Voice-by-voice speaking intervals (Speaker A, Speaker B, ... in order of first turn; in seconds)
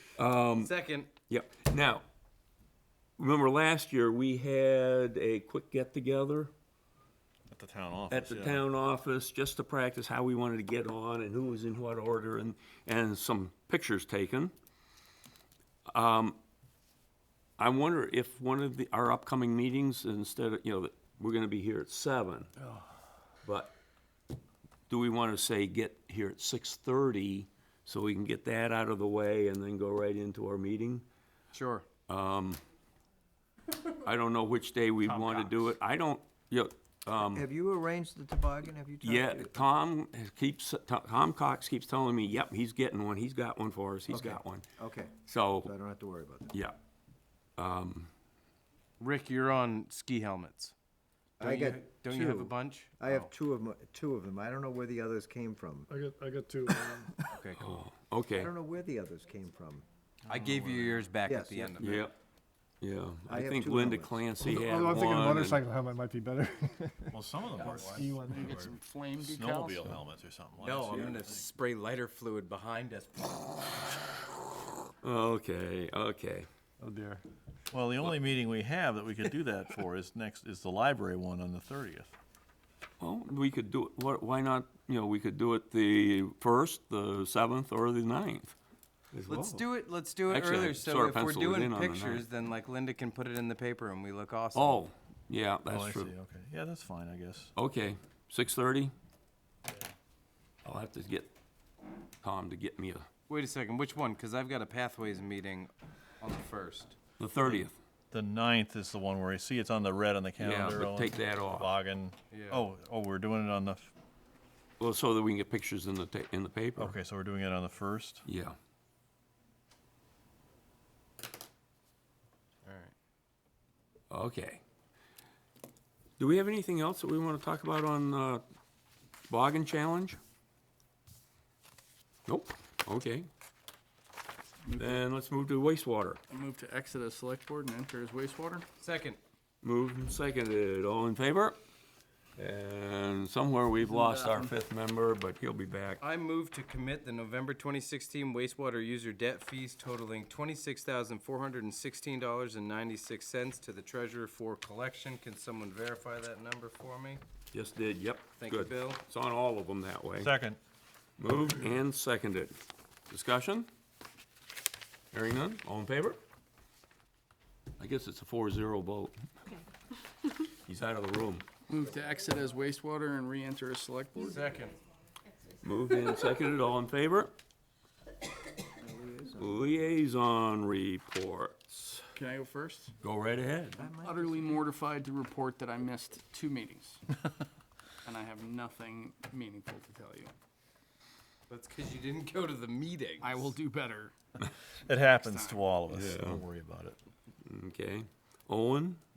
Speaker A: 0.2-0.7, 1.3-2.0, 3.2-6.5, 8.1-14.5, 15.9-16.4, 17.6-22.5, 23.4-23.7, 24.9-31.1, 32.1-32.6, 34.0-37.5, 39.0-44.6, 45.3-45.7, 46.5-46.8, 47.6-48.1, 57.6-58.5, 61.8-62.1, 62.8-65.6, 75.0-76.5, 83.0-88.5, 89.1-89.6, 90.3-92.2, 94.5-96.1, 97.6-98.9, 100.6-101.3, 102.2-103.1, 107.2-107.8, 110.4-111.7, 114.8-117.0, 118.3-118.6, 124.1-124.6, 126.2-128.4, 129.3-130.2, 132.3-133.3, 134.8-136.2, 139.6-141.6, 142.4-146.0, 157.5-160.3, 161.2-162.6, 163.1-163.7, 165.1-166.2, 167.8-169.2, 170.5-171.5, 175.6-177.3, 179.4-182.0, 183.0-183.8, 195.9-196.4, 197.4-199.0
Speaker B: 0.5-1.1, 31.5-31.9, 49.0-50.8, 51.4-53.3, 57.3-57.9, 60.3-62.1, 70.6-73.6, 89.3-94.8, 103.3-105.7, 106.2-107.0, 112.3-112.6, 122.6-122.9, 138.8-139.2, 146.0-157.2, 158.4-159.0, 174.3-174.8, 191.5-193.5
Speaker C: 7.5-8.7, 35.1-35.6, 60.3-61.0, 67.1-71.5, 77.7-82.2, 95.7-97.5, 108.1-113.9, 116.8-118.2, 160.2-160.6, 194.8-197.0
Speaker D: 37.2-39.7, 44.1-46.6, 51.4-55.9, 58.4-59.9, 61.2-62.0, 63.3-64.2, 178.8-179.6, 183.8-184.6
Speaker E: 55.9-57.2, 64.4-68.6, 76.8-77.2
Speaker F: 67.6-70.0, 134.7-135.0, 136.3-138.7, 143.8-144.5, 171.7-174.4, 182.2-182.9, 184.0-187.0, 188.1-190.3, 193.2-194.1, 195.1-195.8